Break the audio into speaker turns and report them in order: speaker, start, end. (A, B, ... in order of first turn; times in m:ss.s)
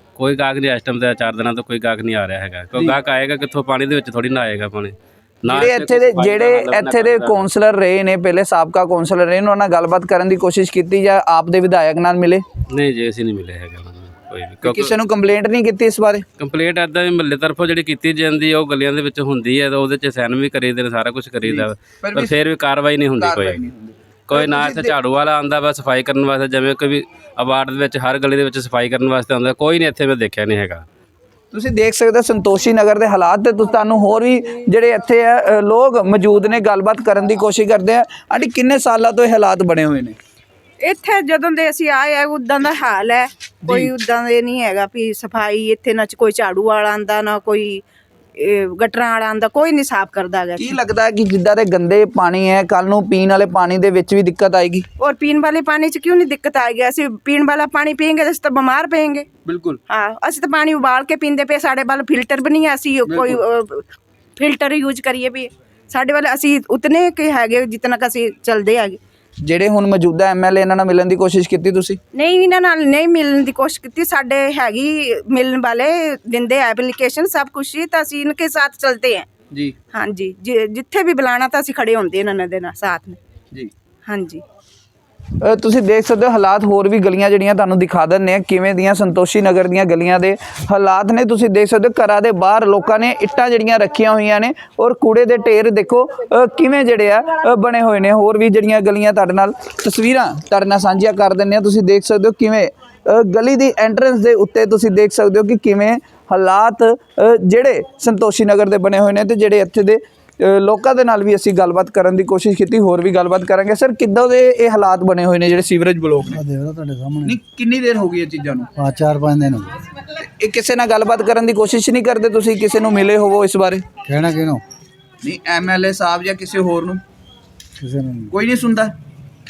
0:00.2-0:07.4 A
0:05.5-0:12.4 B
0:12.7-0:14.9 A
0:14.6-0:16.2 B
0:16.4-0:23.6 A
0:21.4-0:22.4 B
0:23.2-0:25.0 B
0:24.3-0:30.8 A
0:31.5-0:40.2 B
0:40.8-0:47.8 C
0:43.6-0:43.9 B
0:48.4-0:50.8 C
0:50.6-0:54.8 B
0:55.0-0:59.3 C
0:59.4-0:59.8 B
0:59.9-1:09.0 C
1:03.0-1:03.4 B
1:09.4-1:12.0 B
1:12.1-1:19.3 C
1:19.5-1:19.8 B
1:19.9-1:23.2 C
1:24.0-1:24.4 C
1:25.4-1:56.4 B
1:56.2-1:57.4 D
1:57.2-1:58.7 B
1:58.7-1:59.8 D
2:00.1-2:03.8 B
2:04.0-2:04.6 D
2:05.2-2:07.0 B
2:07.8-2:08.3 D
2:08.3-2:08.9 B